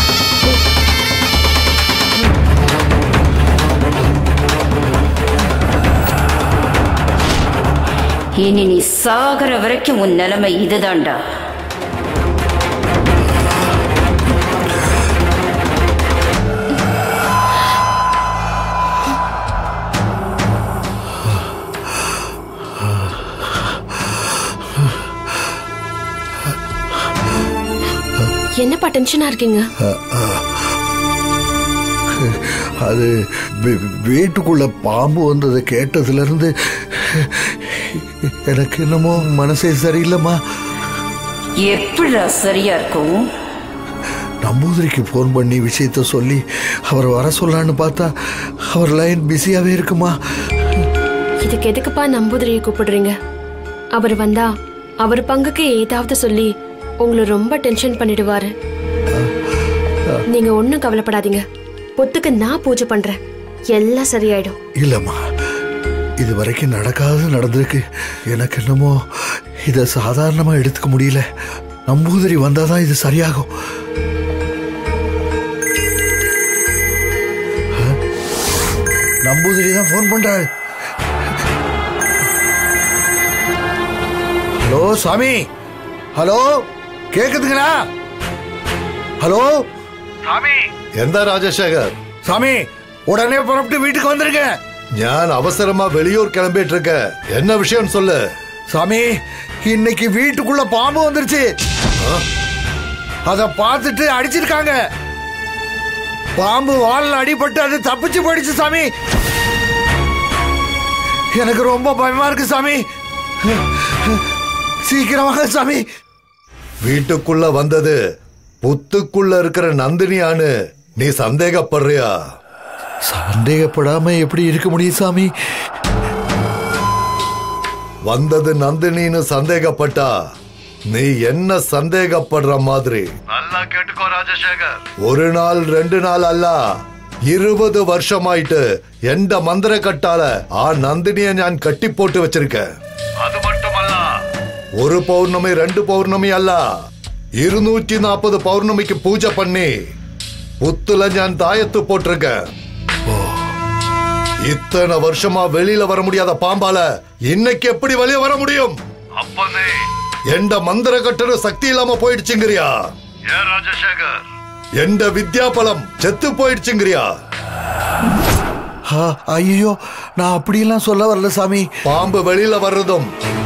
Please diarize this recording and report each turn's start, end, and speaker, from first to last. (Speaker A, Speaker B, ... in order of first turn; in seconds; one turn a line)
Speaker A: 8.3-11.2
Speaker B: 22.7-25.1
Speaker C: 28.6-29.7
Speaker B: 29.8-30.7
Speaker B: 32.1-40.4
Speaker A: 41.6-43.3
Speaker B: 44.4-48.1
Speaker B: 48.7-50.9
Speaker C: 51.4-53.2
Speaker C: 53.9-58.5
Speaker B: 59.1-59.5
Speaker C: 60.3-61.4
Speaker C: 62.0-63.2
Speaker C: 63.7-64.6
Speaker B: 64.8-65.2
Speaker B: 66.2-69.0
Speaker B: 69.7-71.2
Speaker B: 71.9-73.5
Speaker B: 79.2-80.5
Speaker B: 84.6-85.5
Speaker B: 86.2-87.8
Speaker B: 89.2-89.7
Speaker B: 90.3-90.6
Speaker D: 91.0-91.9
Speaker B: 92.3-94.6
Speaker D: 95.0-98.2
Speaker B: 98.7-99.1
Speaker B: 99.6-101.5
Speaker B: 103.3-104.8
Speaker B: 106.4-108.9
Speaker B: 111.3-112.8
Speaker B: 113.4-114.2
Speaker B: 114.9-115.8
Speaker D: 116.8-118.0
Speaker D: 118.6-122.2
Speaker B: 123.1-125.3
Speaker D: 128.1-130.1
Speaker D: 130.9-136.6
Speaker D: 137.3-142.7
Speaker D: 143.2-144.1
Speaker D: 144.8-146.6
Speaker D: 147.4-149.7
Speaker D: 150.6-152.4
Speaker B: 153.1-153.5
Speaker D: 154.4-162.7
Speaker D: 163.3-164.2
Speaker D: 164.8-167.1
Speaker B: 168.9-171.7
Speaker D: 171.9-173.1